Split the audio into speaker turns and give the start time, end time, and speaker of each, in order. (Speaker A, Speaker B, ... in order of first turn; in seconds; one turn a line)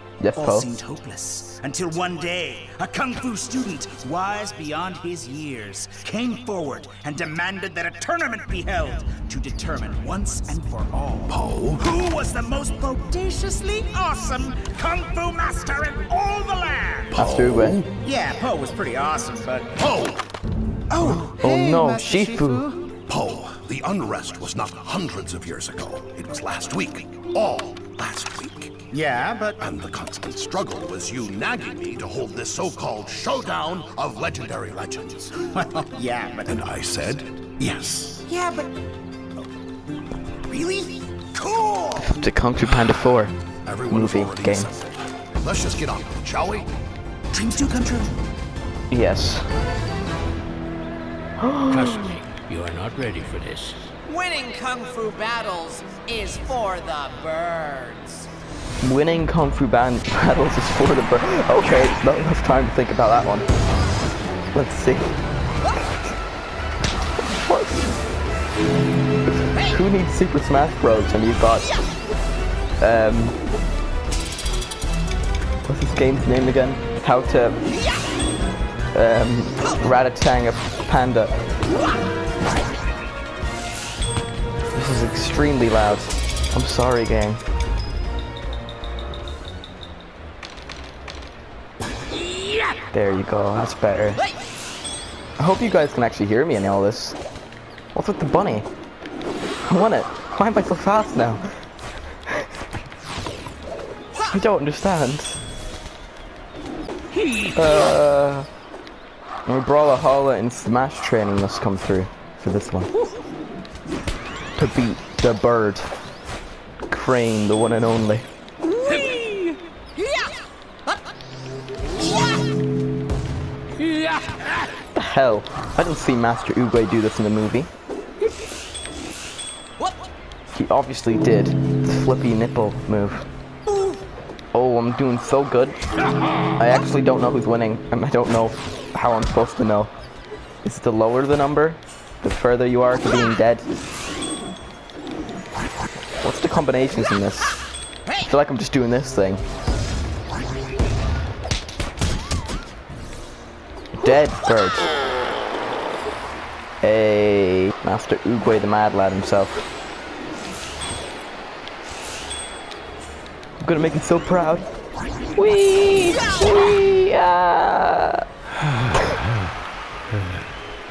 Speaker A: 0.2-0.7
Speaker B: 0.3-17.2
Speaker C: 11.3-11.8
Speaker C: 17.1-17.9
Speaker A: 17.1-17.8
Speaker B: 18.0-19.8
Speaker C: 19.8-20.2
Speaker B: 20.9-22.9
Speaker A: 21.0-22.7
Speaker C: 23.1-28.9
Speaker B: 28.9-29.6
Speaker C: 29.6-35.5
Speaker B: 35.5-36.6
Speaker C: 36.4-38.3
Speaker B: 38.3-38.7
Speaker B: 40.5-42.1
Speaker A: 42.0-43.3
Speaker C: 43.6-46.7
Speaker A: 43.9-44.7
Speaker B: 47.3-48.1
Speaker A: 48.9-49.5
Speaker A: 51.4-52.1
Speaker D: 51.7-53.9
Speaker E: 54.0-58.3
Speaker A: 58.8-63.5
Speaker A: 64.5-65.1
Speaker A: 67.3-67.9
Speaker A: 69.5-71.7
Speaker A: 72.8-73.4
Speaker A: 75.7-77.6
Speaker A: 78.9-81.4
Speaker A: 84.7-87.4
Speaker A: 92.8-94.3
Speaker A: 95.4-97.2
Speaker A: 97.9-98.7
Speaker A: 99.6-101.4
Speaker A: 104.2-105.4
Speaker A: 107.5-108.5
Speaker A: 109.5-112.9
Speaker A: 114.5-115.9
Speaker A: 116.9-118.3
Speaker E: 118.8-119.6
Speaker A: 124.9-127.7
Speaker A: 130.5-133.3
Speaker A: 134.5-135.8
Speaker A: 136.6-139.9
Speaker A: 140.6-143.7
Speaker A: 146.2-147.6
Speaker A: 148.2-149.4
Speaker A: 153.9-154.9
Speaker A: 156.8-159.6
Speaker A: 163.6-164.7
Speaker A: 165.3-168.2